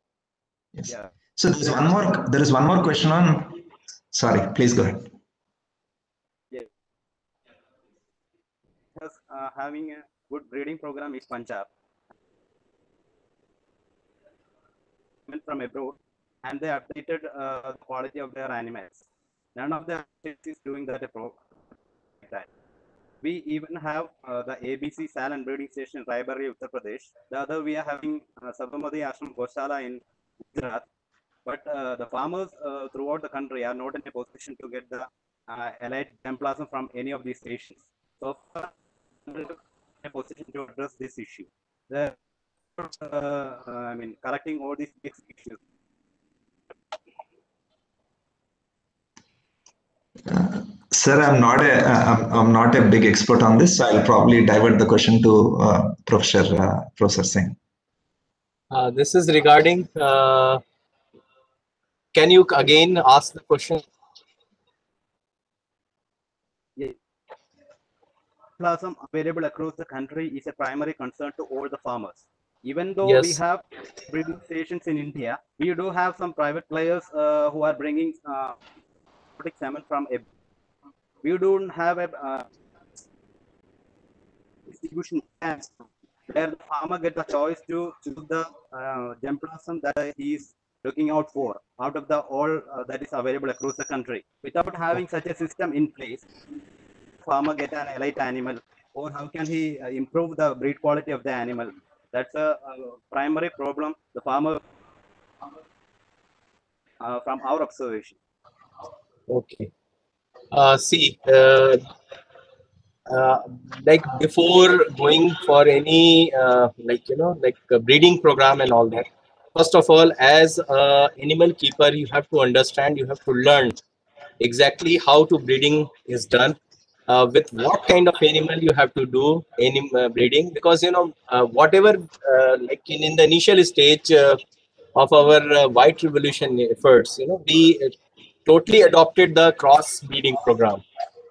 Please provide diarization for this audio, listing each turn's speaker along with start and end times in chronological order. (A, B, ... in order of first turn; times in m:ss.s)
0:00.7-0:03.6 A
0:04.1-0:05.1 A
0:08.9-0:11.7 B
0:15.3-0:19.0 B
0:19.5-0:21.4 B
0:23.2-0:30.8 B
0:31.4-0:38.7 B
0:39.2-0:42.1 B
0:42.8-0:45.6 B
0:50.3-0:57.6 A
0:58.7-1:00.6 C
1:02.1-1:03.8 C
1:08.6-1:18.6 B
1:13.0-1:13.4 C
1:19.4-1:20.2 B
1:21.2-1:22.5 B
1:24.7-1:36.2 B
1:37.2-1:44.6 B
1:47.0-1:48.2 B
1:49.3-1:49.7 C
1:50.5-1:51.8 C
1:53.1-2:03.8 C
2:04.4-2:06.6 C
2:07.1-2:14.4 C
2:14.9-2:20.8 C